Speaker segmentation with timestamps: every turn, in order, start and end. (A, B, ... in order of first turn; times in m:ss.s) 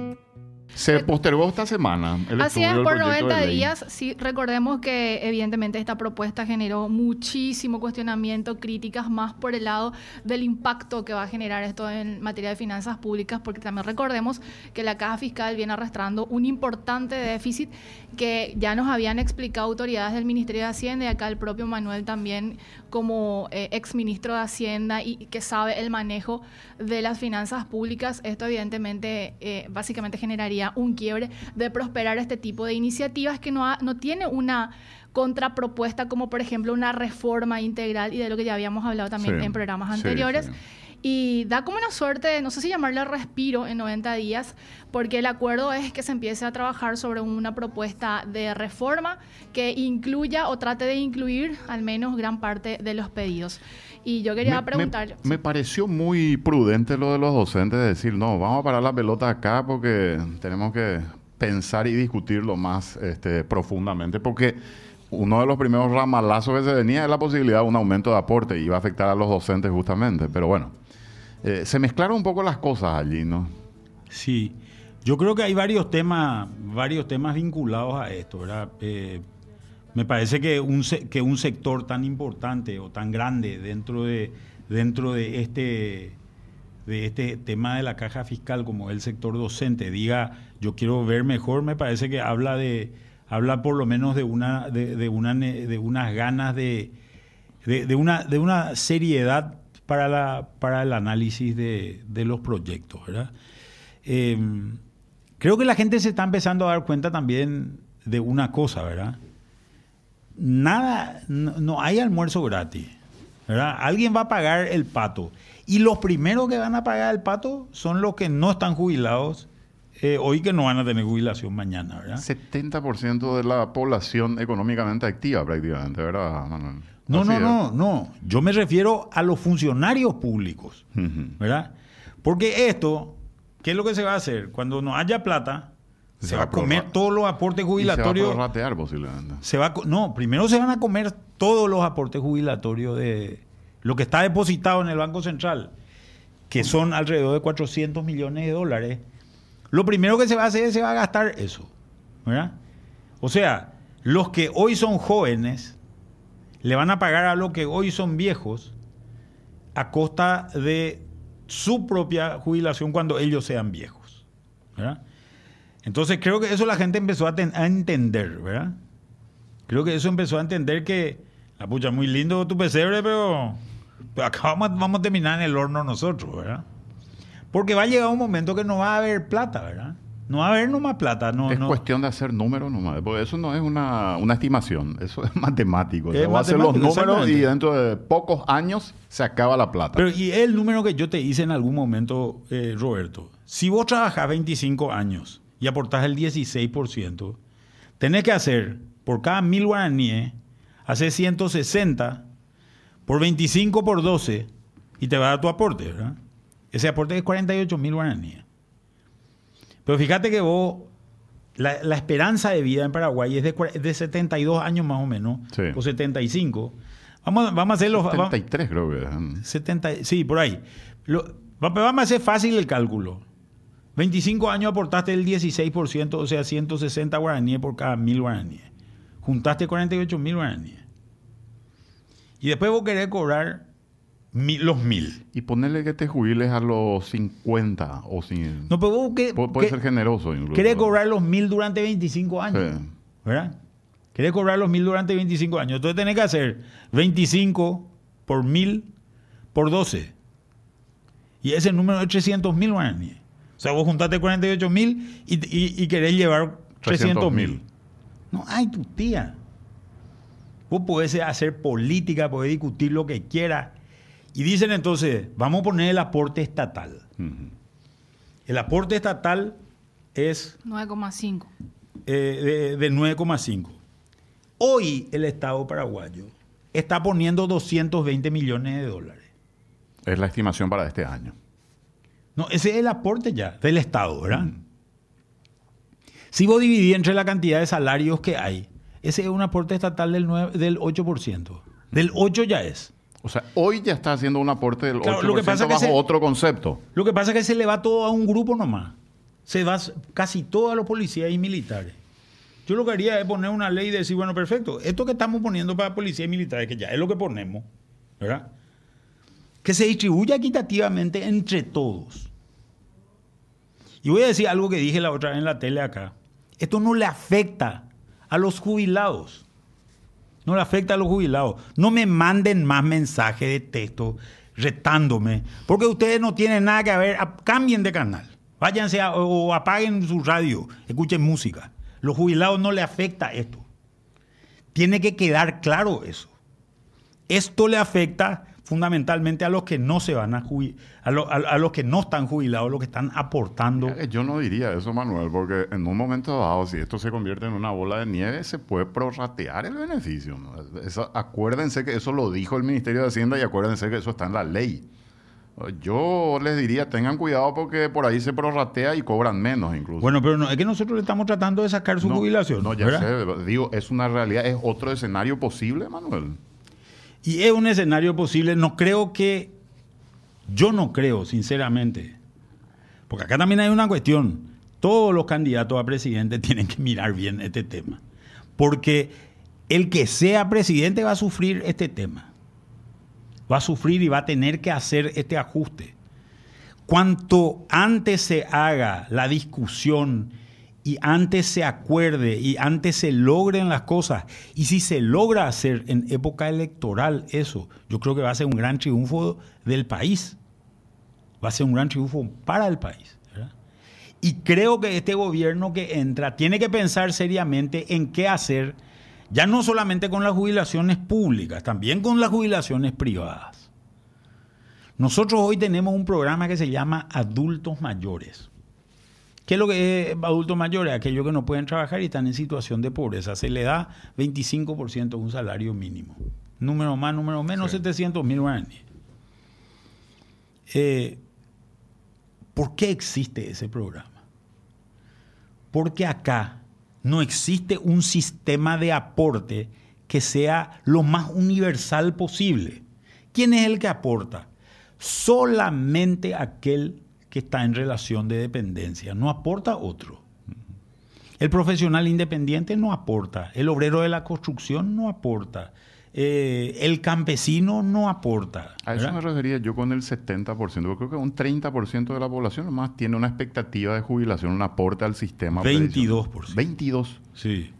0:00.7-0:03.7 A
0:02.4-0:55.3 B
0:39.2-0:40.6 A
0:54.4-1:04.6 A
1:05.1-1:10.7 A
1:11.4-1:13.5 A
1:14.1-1:19.2 C
1:19.9-1:26.2 C
1:26.8-1:36.9 C
1:37.6-1:43.3 C
1:44.0-1:44.8 C
1:45.4-1:49.2 C
1:50.4-1:52.9 C
1:53.5-1:59.5 C
2:00.0-2:02.2 C
2:02.2-2:07.6 A
2:07.1-2:10.8 C
2:11.0-2:11.3 A
2:11.4-2:15.7 C
2:16.2-2:16.9 A
2:16.2-2:18.4 C
2:17.8-2:19.4 A
2:19.4-2:25.7 C
2:26.5-2:29.0 C
2:29.7-2:31.7 C
2:32.2-2:32.6 C
2:33.2-2:35.8 C
2:36.6-2:38.7 C
2:39.7-2:44.2 C
2:44.8-2:45.0 C
2:45.8-2:48.8 C
2:49.7-2:53.6 C
2:54.2-2:56.6 C
2:57.5-3:01.8 C
3:01.5-3:10.0 A
3:06.1-3:07.5 C
3:10.0-3:17.4 C
3:18.0-3:22.3 C
3:23.0-3:24.5 C
3:25.0-3:26.2 C
3:26.7-3:28.4 C
3:29.8-3:30.9 C
3:31.6-3:38.3 C
3:37.9-3:39.4 A
3:39.4-3:43.2 C
3:44.0-3:48.7 C
3:49.2-3:50.8 C
3:52.4-3:53.6 C
3:54.3-3:55.2 C
3:55.3-3:58.7 A
3:58.7-3:59.8 C
3:59.3-4:00.9 A
4:00.5-4:02.7 C
4:02.5-4:02.9 A
4:03.2-4:03.6 C
4:04.1-4:08.9 C
4:09.5-4:10.1 C
4:11.4-4:17.6 C
4:16.8-4:17.6 A
4:18.3-4:19.4 C
4:20.7-4:23.7 C
4:24.3-4:27.1 C
4:27.2-4:27.5 A
4:28.5-4:29.6 C
4:30.1-4:30.6 C
4:30.6-4:31.5 B
4:32.0-4:33.8 C
4:34.6-4:39.3 C
4:40.0-4:41.3 A
4:42.4-4:44.6 C
4:46.3-4:52.9 C
4:53.2-4:56.8 A
4:55.0-4:56.0 C
4:56.9-5:02.0 C
5:02.6-5:07.7 C
5:08.2-5:08.5 C
5:09.6-5:12.3 C
5:14.0-5:19.4 C
5:20.4-5:33.6 C
5:34.7-5:36.3 C
5:37.3-5:44.0 C
5:43.8-5:54.8 A
5:55.6-6:00.1 A
6:00.0-6:03.1 C
6:02.0-6:06.4 A
6:07.2-6:09.5 C
6:10.5-6:12.2 C
6:13.1-6:18.0 C
6:18.6-6:19.2 C
6:19.7-6:22.3 C
6:23.5-6:25.9 C
6:26.9-6:40.4 C
6:41.4-6:43.5 C
6:44.2-6:48.8 C
6:49.3-6:53.7 C
6:55.0-6:58.5 C
6:59.4-7:08.8 C
7:10.7-7:11.2 C
7:12.5-7:14.2 C
7:15.7-7:24.5 C
7:25.0-7:30.2 C
7:31.4-7:39.2 C
7:38.8-7:47.2 A
7:45.5-7:46.6 C
7:47.4-7:47.7 C